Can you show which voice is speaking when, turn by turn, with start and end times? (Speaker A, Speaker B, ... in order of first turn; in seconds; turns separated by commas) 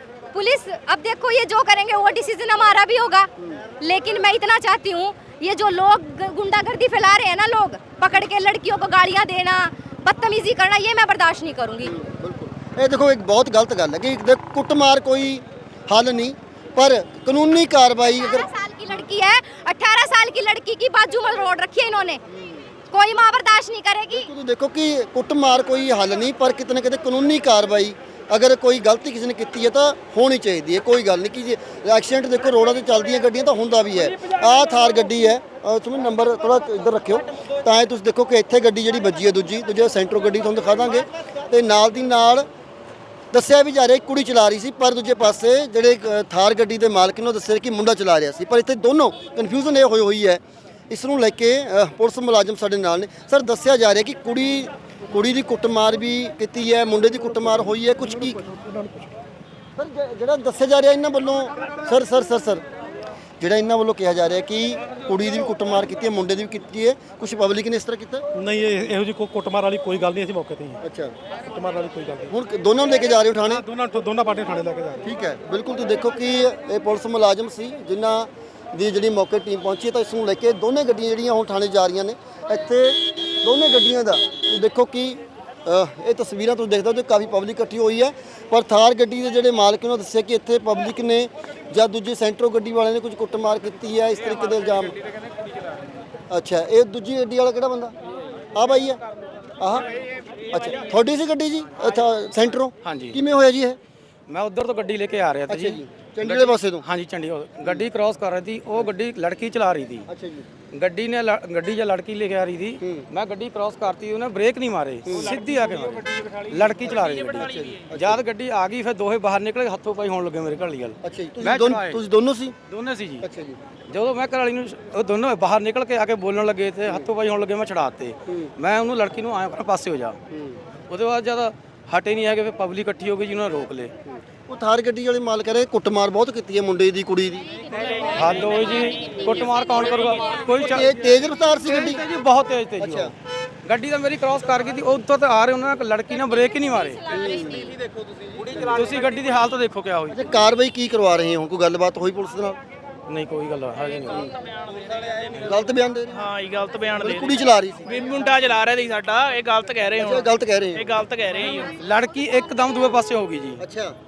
Speaker A: 0.3-3.3, Speaker A: 3.8-11.9, Speaker B: 11.8-18.5, Speaker A: 18.0-22.2, Speaker B: 22.3-22.7, Speaker A: 22.9-24.3, Speaker B: 24.1-42.5, Speaker B: 43.3-58.4, Speaker C: 58.5-59.1, Speaker B: 59.8-62.6, Speaker B: 63.4-68.2, Speaker C: 68.4-70.8, Speaker B: 70.8-71.1, Speaker C: 71.5-72.3, Speaker B: 72.3-73.6, Speaker C: 73.5-75.1, Speaker B: 75.0-95.0, Speaker B: 96.3-98.0, Speaker B: 98.5-99.0, Speaker B: 99.6-99.9, Speaker B: 100.5-103.8, Speaker D: 102.8-103.2, Speaker D: 104.3-110.1, Speaker B: 105.5-106.8, Speaker B: 110.1-110.5, Speaker D: 110.7-122.0, Speaker B: 112.8-113.1, Speaker B: 115.1-115.4, Speaker B: 117.4-118.2, Speaker B: 121.0-122.5, Speaker D: 122.7-123.3, Speaker B: 123.2-123.6, Speaker D: 123.9-130.2, Speaker B: 128.3-128.5, Speaker B: 130.3-130.6, Speaker D: 130.9-133.9, Speaker B: 134.1-137.6, Speaker D: 138.0-140.9, Speaker B: 140.6-142.0, Speaker D: 141.6-143.1, Speaker B: 142.8-143.1, Speaker D: 143.7-147.2, Speaker B: 147.1-147.8, Speaker D: 148.5-150.5, Speaker B: 150.1-152.6, Speaker D: 153.1-154.3, Speaker B: 155.3-156.2, Speaker E: 156.1-157.3, Speaker B: 157.0-157.9, Speaker E: 157.9-160.2, Speaker B: 160.0-160.9, Speaker E: 160.8-161.7, Speaker D: 161.6-163.6, Speaker B: 163.6-163.9